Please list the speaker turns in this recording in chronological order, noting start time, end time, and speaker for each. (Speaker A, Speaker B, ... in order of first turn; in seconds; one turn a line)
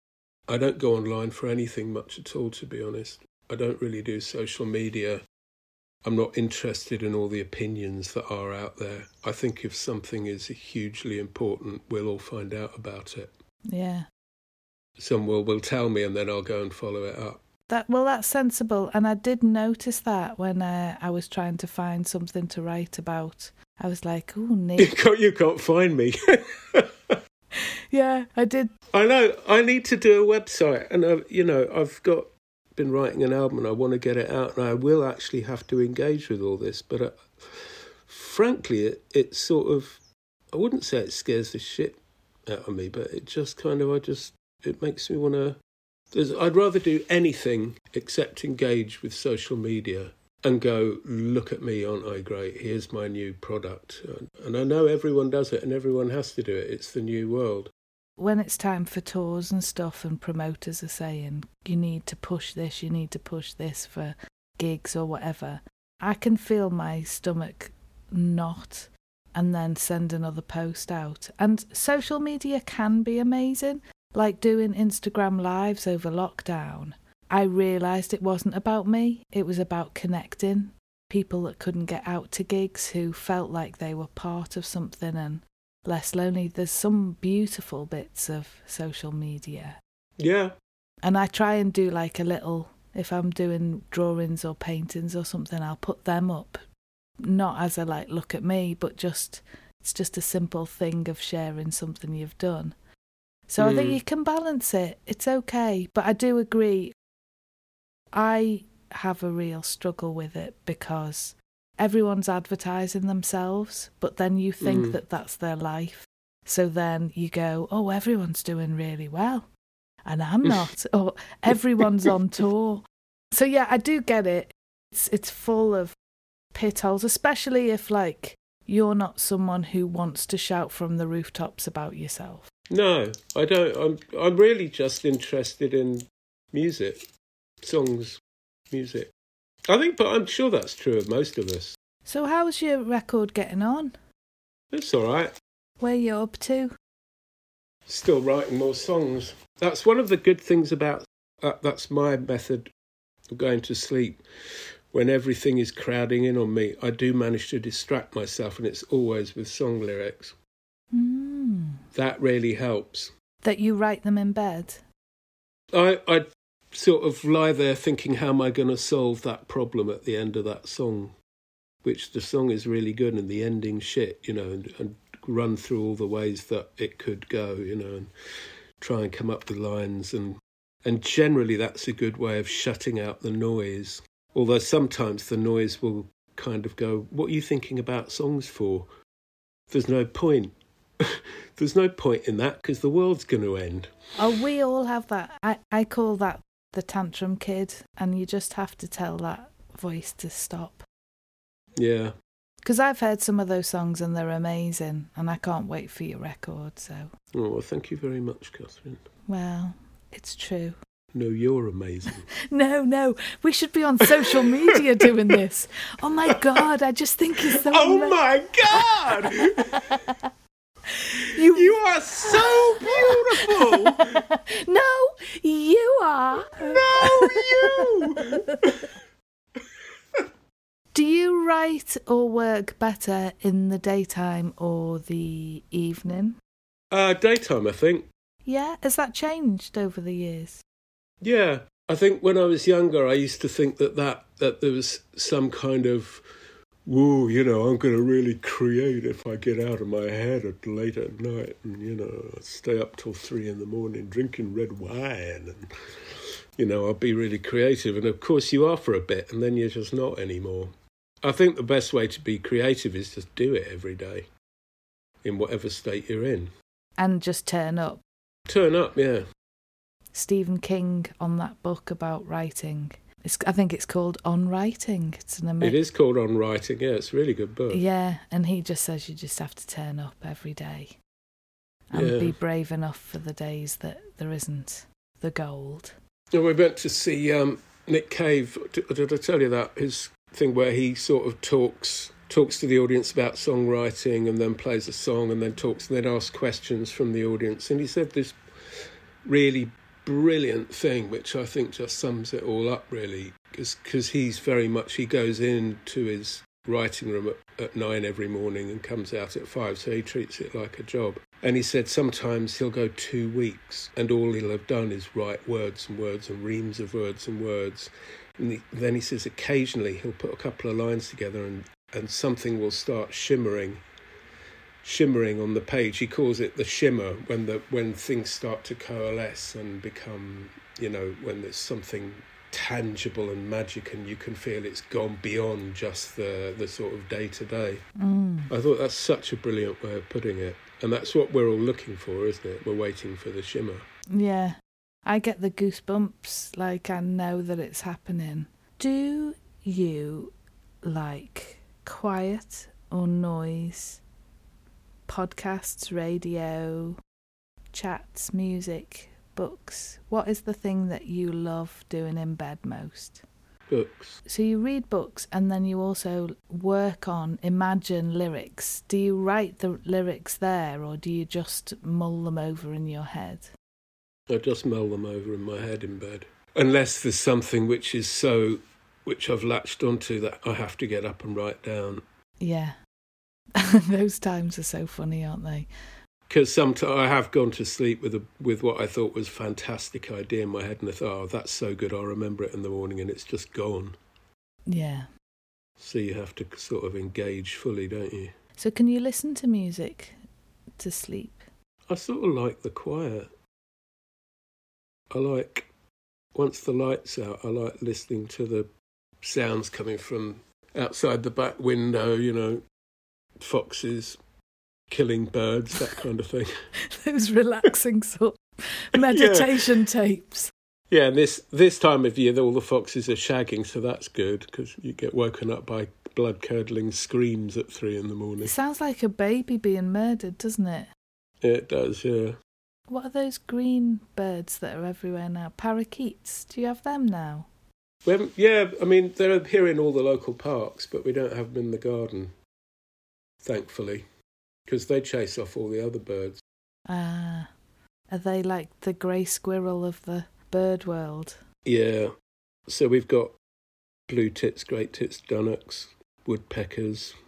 Speaker A: 0.5-5.2
Speaker A: 6.0-13.3
Speaker B: 13.7-14.1
Speaker A: 15.0-17.4
Speaker B: 17.7-24.9
Speaker A: 24.8-27.2
Speaker B: 27.6-28.7
Speaker A: 28.9-40.0
Speaker A: 40.5-45.6
Speaker A: 46.1-57.7
Speaker B: 58.2-89.8
Speaker A: 90.2-90.5
Speaker B: 91.0-96.6
Speaker B: 97.2-102.7
Speaker B: 103.5-106.9
Speaker A: 103.6-104.0
Speaker B: 108.1-119.5
Speaker A: 114.6-115.0
Speaker B: 120.0-125.9
Speaker A: 121.5-122.1
Speaker B: 126.5-132.5
Speaker A: 132.7-137.0
Speaker A: 137.6-138.2
Speaker A: 138.7-139.1
Speaker A: 139.7-141.8
Speaker B: 142.1-143.9
Speaker A: 144.7-145.3
Speaker B: 145.8-146.7
Speaker A: 147.9-152.7
Speaker A: 153.3-154.2
Speaker A: 154.9-160.3
Speaker B: 160.9-161.8
Speaker A: 161.9-163.1
Speaker B: 163.4-164.8
Speaker A: 165.7-171.1
Speaker A: 171.8-178.1
Speaker A: 178.8-188.9
Speaker A: 189.7-193.9
Speaker B: 194.2-200.8
Speaker A: 201.8-202.1
Speaker B: 202.6-207.1
Speaker A: 207.3-209.0
Speaker B: 209.3-210.8
Speaker A: 211.1-212.2
Speaker B: 212.5-218.2
Speaker A: 214.3-214.8
Speaker A: 217.5-219.9
Speaker B: 218.8-220.1
Speaker B: 220.9-228.8
Speaker A: 221.5-224.2
Speaker A: 226.7-228.9
Speaker B: 230.9-236.4
Speaker A: 236.9-238.1
Speaker B: 238.4-240.6
Speaker A: 241.2-246.2
Speaker A: 246.8-255.7
Speaker A: 256.6-260.7
Speaker A: 261.2-264.2
Speaker A: 265.2-266.5
Speaker B: 267.0-268.0
Speaker A: 268.5-269.2
Speaker B: 270.1-275.8
Speaker A: 275.6-277.8
Speaker B: 277.7-281.0
Speaker B: 281.9-285.9
Speaker A: 281.9-282.4
Speaker A: 286.3-323.8
Speaker A: 324.8-337.8
Speaker B: 338.0-338.5
Speaker A: 338.5-343.8
Speaker B: 344.1-354.0
Speaker B: 355.1-357.0
Speaker B: 357.7-363.2
Speaker A: 363.7-364.2
Speaker B: 364.2-373.5
Speaker A: 374.3-382.0
Speaker B: 382.4-382.8
Speaker B: 383.6-385.7
Speaker A: 386.3-393.9
Speaker B: 394.7-395.1
Speaker A: 395.8-398.3
Speaker B: 398.6-400.2
Speaker B: 400.8-401.5
Speaker A: 401.9-403.3
Speaker A: 405.1-405.7
Speaker A: 406.3-408.7
Speaker A: 409.2-412.6
Speaker A: 413.4-414.2
Speaker A: 414.9-416.5
Speaker B: 416.9-420.5
Speaker A: 419.1-419.6
Speaker A: 420.9-428.5
Speaker B: 428.4-430.9
Speaker A: 431.4-432.4
Speaker B: 432.9-437.5
Speaker A: 438.0-442.3
Speaker A: 443.4-444.0
Speaker A: 444.6-446.4
Speaker B: 446.9-447.5
Speaker B: 448.1-451.4
Speaker A: 451.6-452.1
Speaker A: 452.7-453.4
Speaker A: 454.1-457.1